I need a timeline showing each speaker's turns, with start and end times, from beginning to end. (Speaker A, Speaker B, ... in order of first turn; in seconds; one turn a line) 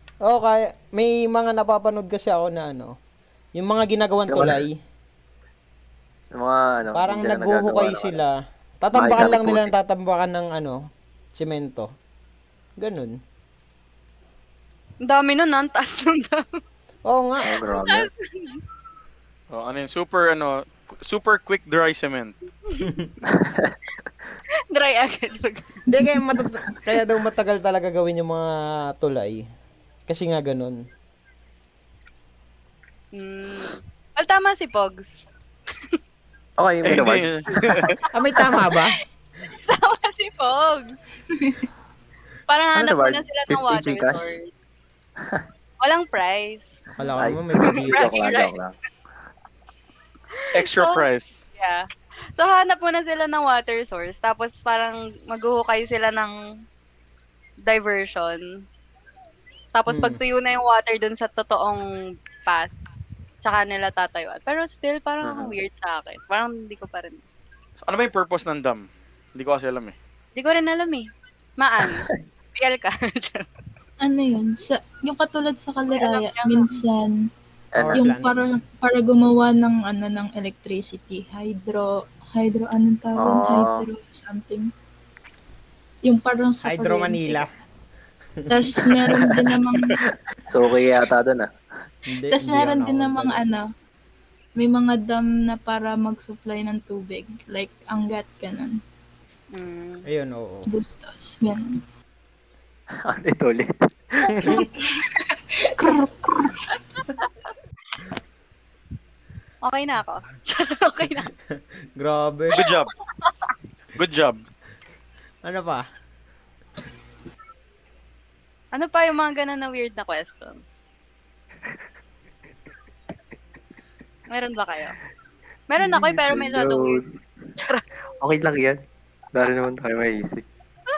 Speaker A: 0.2-3.0
Speaker A: 3.6-4.8
Speaker B: 4.3-4.6
Speaker B: 6.4-8.2
Speaker A: 6.9-10.8
Speaker B: 8.9-9.7
Speaker A: 11.3-11.9
Speaker A: 12.8-13.2
Speaker C: 15.0-16.6
Speaker A: 17.1-17.6
Speaker B: 17.4-18.1
Speaker C: 17.7-18.6
Speaker D: 19.5-22.4
Speaker A: 22.8-23.1
Speaker B: 23.3-23.8
Speaker C: 24.7-25.8
Speaker A: 25.9-29.4
Speaker E: 26.0-26.5
Speaker A: 30.1-30.8
Speaker C: 33.1-36.0
Speaker B: 36.6-37.9
Speaker D: 36.9-38.0
Speaker A: 38.1-39.0
Speaker C: 38.4-40.9
Speaker E: 41.4-41.7
Speaker C: 42.5-44.6
Speaker B: 42.8-44.3
Speaker C: 45.8-46.8
Speaker A: 46.9-48.1
Speaker B: 47.2-48.7
Speaker C: 47.6-48.5
Speaker C: 50.4-56.4
Speaker D: 50.5-51.5
Speaker C: 57.7-58.5
Speaker C: 59.7-61.9
Speaker A: 59.9-60.2
Speaker C: 63.4-67.2
Speaker B: 65.2-65.6
Speaker D: 67.9-70.0
Speaker C: 70.4-71.1
Speaker C: 71.6-73.5
Speaker B: 71.8-72.2
Speaker E: 74.0-77.2
Speaker C: 75.9-76.8
Speaker B: 77.7-78.0
Speaker A: 77.8-78.3
Speaker E: 78.0-84.7
Speaker B: 83.2-83.9
Speaker E: 86.0-87.5
Speaker A: 86.6-87.5
Speaker E: 88.5-90.0
Speaker B: 89.1-91.5
Speaker A: 92.1-93.4
Speaker E: 92.3-93.6
Speaker E: 94.6-98.8
Speaker C: 99.5-100.1
Speaker A: 100.0-100.7
Speaker E: 100.7-101.8
Speaker B: 103.0-104.5
Speaker E: 104.5-106.7
Speaker C: 107.0-107.3
Speaker C: 109.6-111.3
Speaker A: 112.0-112.6
Speaker D: 112.5-112.9
Speaker C: 112.7-113.5
Speaker D: 114.0-114.4
Speaker A: 115.4-115.9
Speaker C: 118.7-120.6
Speaker C: 124.3-125.0
Speaker C: 125.7-127.0
Speaker B: 125.8-127.2
Speaker C: 127.6-127.8
Speaker B: 128.2-128.8
Speaker B: 129.3-130.4